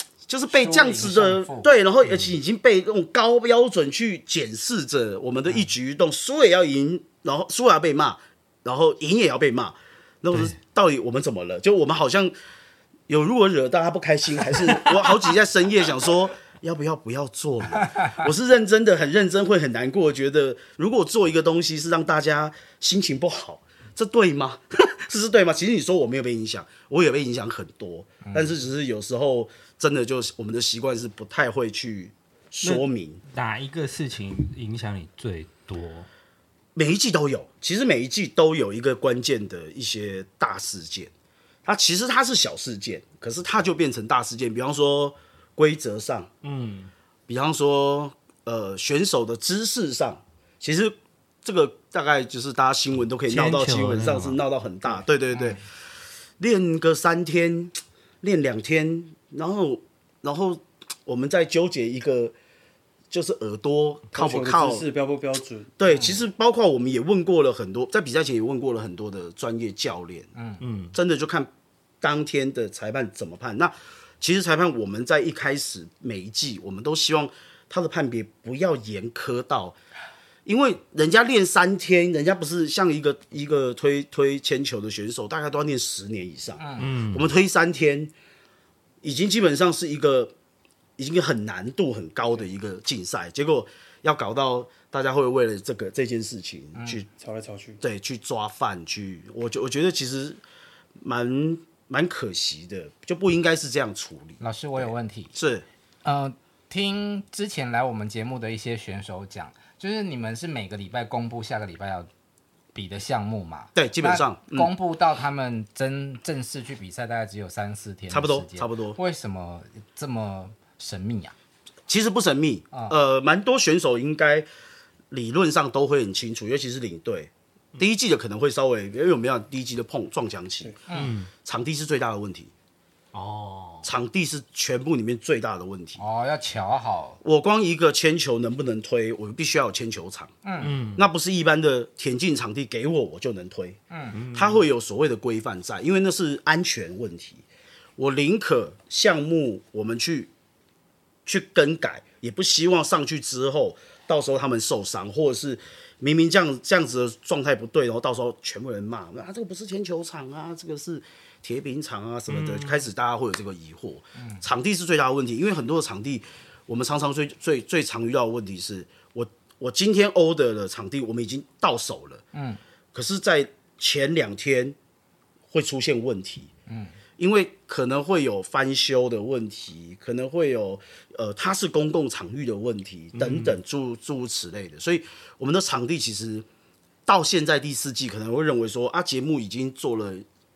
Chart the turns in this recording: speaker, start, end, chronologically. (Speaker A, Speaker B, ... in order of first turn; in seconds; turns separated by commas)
Speaker A: 0.3-12.3, Speaker B: 0.5-1.7, Speaker A: 13.1-33.2, Speaker C: 33.3-36.1, Speaker A: 36.8-41.1, Speaker A: 41.6-46.3, Speaker C: 46.4-46.9, Speaker A: 47.3-55.6, Speaker C: 53.3-54.4, Speaker B: 55.3-55.6, Speaker A: 56.4-62.3, Speaker A: 63.1-64.9, Speaker D: 64.1-65.7, Speaker A: 65.8-70.3, Speaker B: 65.9-66.2, Speaker B: 70.3-70.6, Speaker C: 70.6-70.9, Speaker A: 70.9-71.5, Speaker A: 72.0-79.8, Speaker A: 80.4-88.1, Speaker B: 86.6-86.9, Speaker C: 86.8-87.3, Speaker A: 89.0-90.3, Speaker A: 91.0-97.0, Speaker B: 96.8-97.0, Speaker D: 97.1-97.8, Speaker A: 97.8-100.4, Speaker A: 101.0-105.6, Speaker B: 104.4-105.3, Speaker B: 106.0-112.1, Speaker B: 112.7-121.3, Speaker A: 113.7-114.7, Speaker A: 118.1-119.0, Speaker A: 121.9-124.5, Speaker A: 125.1-130.7, Speaker B: 130.9-131.2, Speaker C: 130.9-131.3, Speaker A: 131.4-132.5, Speaker C: 133.1-133.9, Speaker A: 133.8-136.0, Speaker B: 136.0-137.2, Speaker A: 137.2-140.3, Speaker B: 140.4-140.8, Speaker C: 140.6-141.1, Speaker A: 140.9-143.8, Speaker B: 143.9-144.2, Speaker C: 144.1-144.6, Speaker A: 144.3-147.4, Speaker A: 148.0-150.3, Speaker A: 151.2-172.2, Speaker C: 162.3-162.8, Speaker B: 164.2-164.4, Speaker B: 172.3-172.6, Speaker A: 172.9-174.8, Speaker A: 175.5-176.5, Speaker B: 176.7-176.9, Speaker A: 177.2-186.4, Speaker C: 183.1-183.6, Speaker A: 187.1-190.2